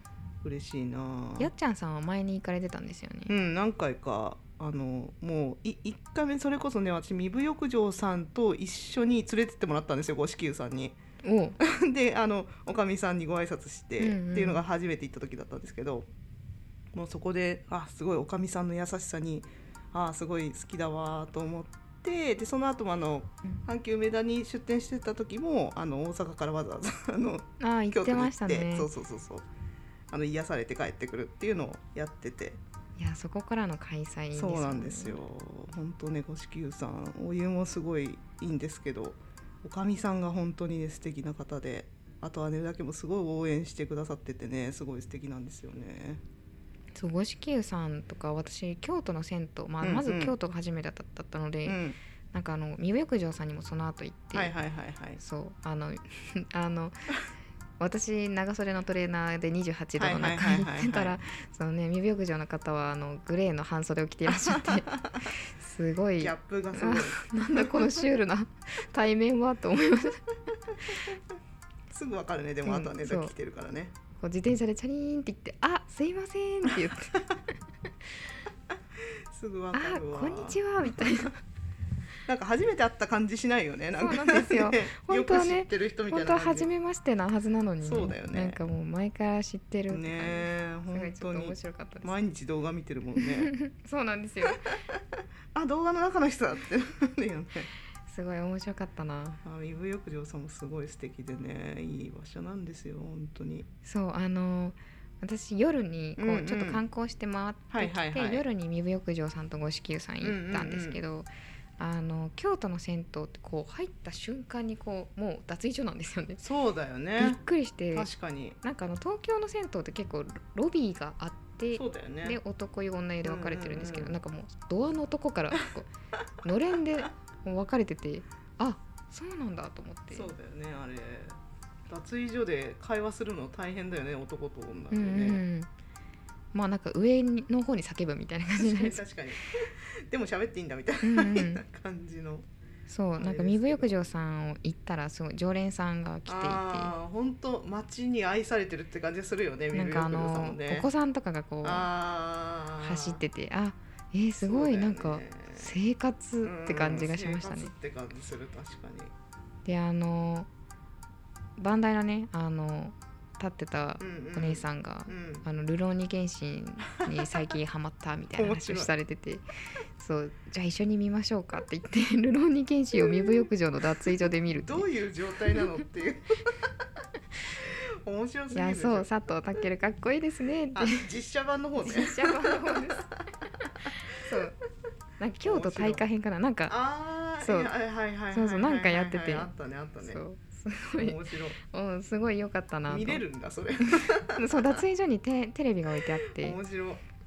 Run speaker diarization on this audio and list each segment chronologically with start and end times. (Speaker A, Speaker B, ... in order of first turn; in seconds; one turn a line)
Speaker A: 0.4-1.5
Speaker B: 1.4-3.3
Speaker A: 3.3-11.0
Speaker B: 11.2-11.6
Speaker A: 11.6-16.1
Speaker B: 14.0-14.6
Speaker A: 16.9-29.5
Speaker B: 27.6-28.9
Speaker A: 30.1-32.6
Speaker B: 33.0-35.2
Speaker A: 34.3-46.2
Speaker B: 46.9-51.8
Speaker A: 49.8-50.3
Speaker A: 51.6-52.0
Speaker B: 52.3-54.5
Speaker A: 54.3-55.2
Speaker B: 55.2-57.1
Speaker B: 57.8-70.2
Speaker A: 60.0-61.2
Speaker A: 64.3-65.3
Speaker A: 66.2-68.1
Speaker A: 71.9-73.9
Speaker B: 72.6-73.3
Speaker B: 74.2-77.3
Speaker A: 79.3-81.3
Speaker B: 79.7-81.4
Speaker A: 82.3-86.7
Speaker B: 84.0-92.1
Speaker A: 87.8-88.6
Speaker A: 89.9-93.5
Speaker B: 93.2-94.7
Speaker A: 94.4-95.0
Speaker A: 95.5-97.7
Speaker B: 98.1-99.4
Speaker A: 99.4-103.7
Speaker B: 103.8-116.4
Speaker A: 106.2-106.8
Speaker A: 107.7-108.4
Speaker A: 110.2-111.0
Speaker A: 116.4-117.4
Speaker B: 117.2-118.1
Speaker A: 117.9-118.6
Speaker B: 118.6-125.9
Speaker A: 121.7-122.4
Speaker A: 123.2-124.2
Speaker B: 126.4-130.3
Speaker A: 130.1-135.4
Speaker B: 134.9-135.7
Speaker B: 136.5-139.0
Speaker A: 138.6-142.5
Speaker B: 141.0-141.6
Speaker B: 142.9-146.9
Speaker A: 143.2-144.0
Speaker A: 146.3-150.9
Speaker B: 149.7-151.9
Speaker A: 151.6-153.2
Speaker B: 152.8-157.7
Speaker A: 154.4-155.7
Speaker A: 156.4-159.1
Speaker B: 159.6-160.5
Speaker B: 161.6-169.4
Speaker A: 164.0-165.4
Speaker A: 168.3-168.9
Speaker B: 170.0-174.9
Speaker A: 173.0-173.4
Speaker A: 174.0-176.7
Speaker A: 177.6-179.1
Speaker B: 178.5-181.1
Speaker A: 180.7-183.9
Speaker B: 181.8-183.1
Speaker B: 183.8-184.6
Speaker B: 185.2-186.8
Speaker A: 185.4-186.0
Speaker A: 186.7-190.2
Speaker B: 187.4-187.7
Speaker B: 188.3-193.2
Speaker A: 191.0-191.6
Speaker A: 192.9-194.8
Speaker B: 193.9-196.6
Speaker A: 196.3-197.0